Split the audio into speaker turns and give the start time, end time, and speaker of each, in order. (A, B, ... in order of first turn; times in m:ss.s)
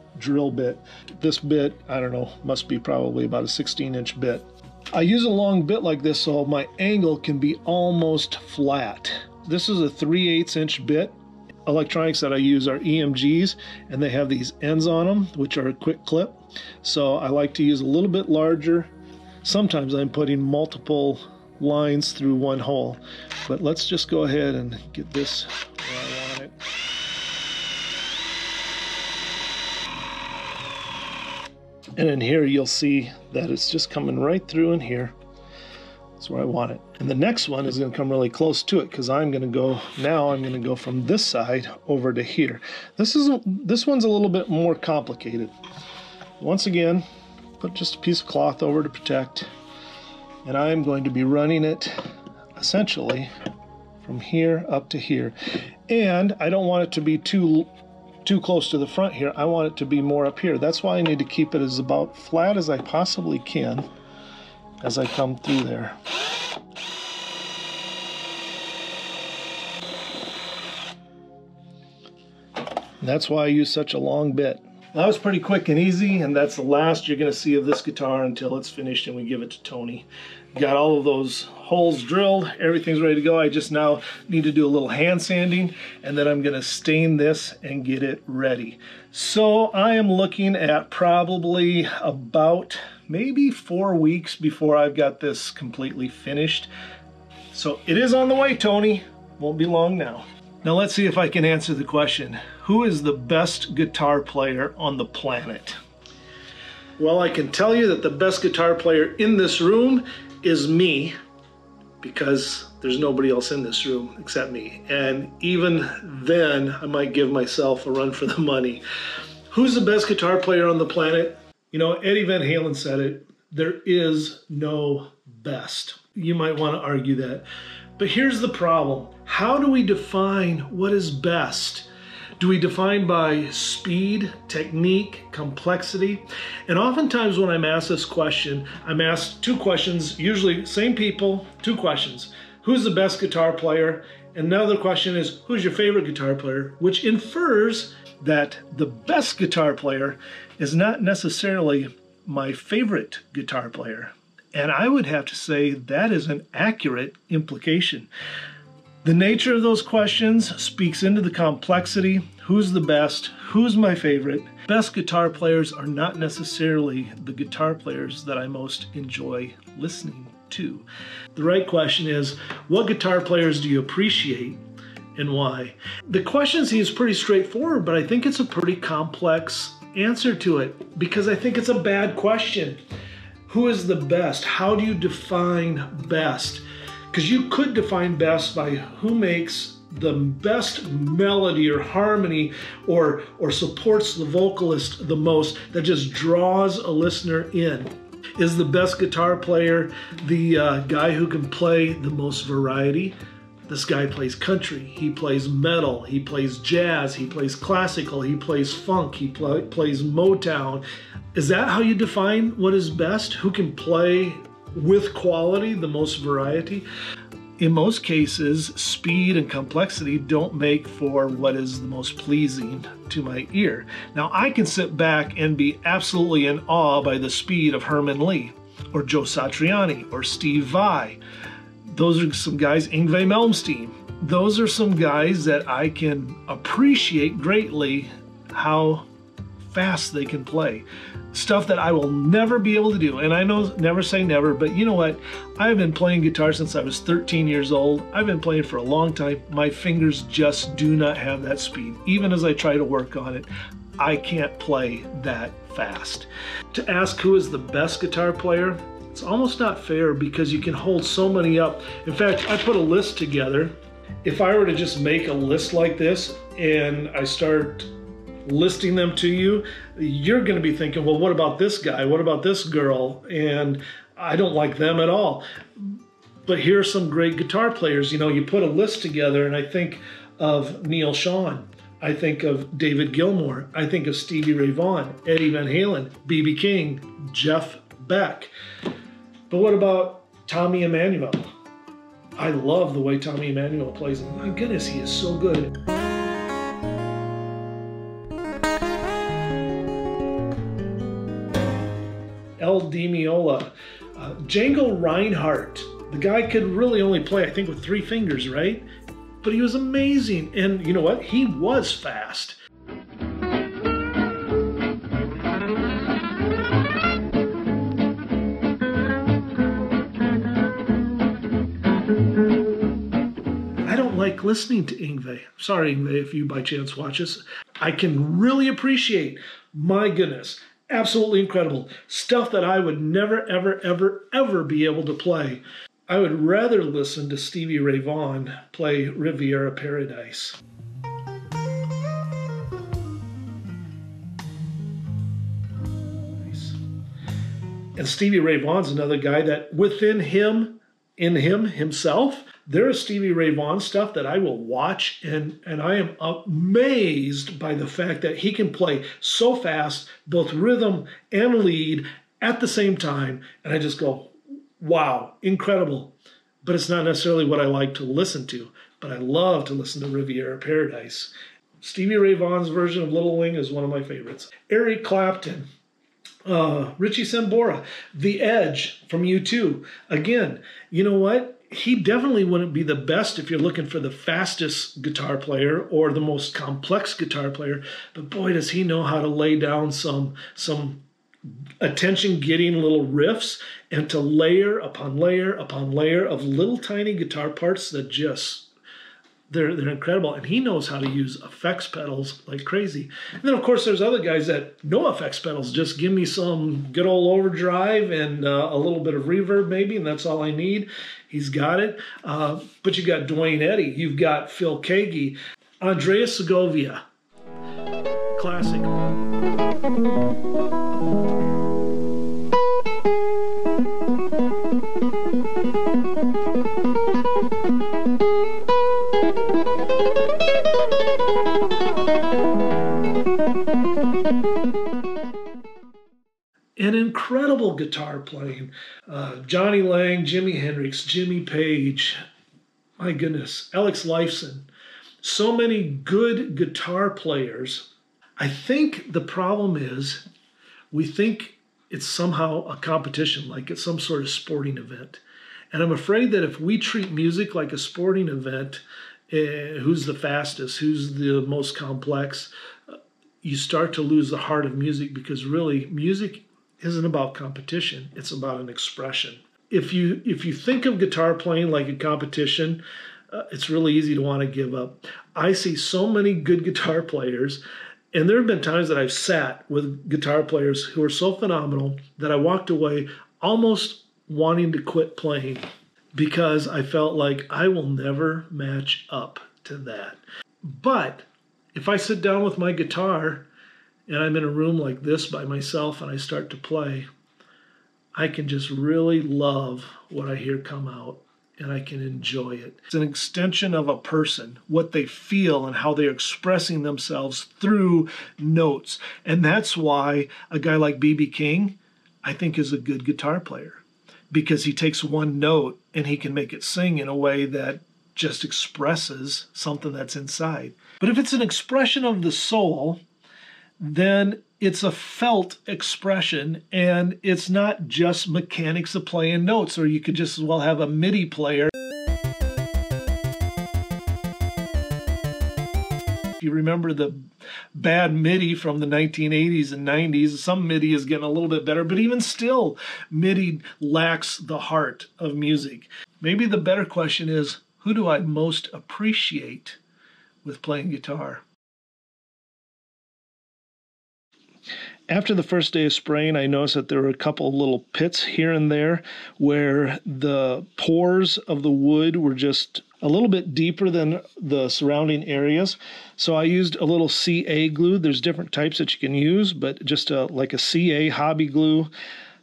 0:00.2-0:26.6 A
0:32.0-0:35.2 A
0:36.2-0:45.5 A
0:46.4-0:47.0 A
0:47.6-0:49.5 A
0:50.4-0:52.0 A
0:52.6-0:53.3 A
0:54.0-0:55.4 A
0:55.9-0:57.7 A
0:58.2-1:03.9 A
1:04.8-1:06.0 A
1:13.0-1:36.7 A
1:37.5-1:45.8 A
1:47.0-1:51.1 A
1:52.0-1:58.8 A
1:59.5-2:07.5 A
2:08.0-2:38.1 A
2:39.0-2:54.6 A
2:55.2-3:02.8 A
3:03.5-3:23.2 A
3:23.7-3:36.8 A
3:37.6-3:51.2 A
3:51.9-3:59.1 A
3:59.6-4:23.7 A
4:24.2-4:27.9 A
4:28.5-4:48.5 A
4:49.5-4:51.5 A
4:52.4-4:55.8 A
5:02.6-5:08.9 A
5:09.4-5:12.6 A
5:23.9-5:40.6 A
5:46.1-5:46.8 A
5:48.0-6:15.7 A
6:16.5-6:31.0 A
6:31.8-6:38.7 A
6:39.5-6:57.0 A
6:58.4-6:58.9 A
7:16.8-7:22.2 A
7:23.0-7:24.7 A
7:25.2-7:30.2 A
7:30.9-8:13.5 A
8:14.1-8:17.1 A
8:18.2-8:43.0 A
8:43.8-8:51.7 A
8:56.4-9:09.8 A
9:10.4-9:11.4 A
9:15.1-9:31.9 A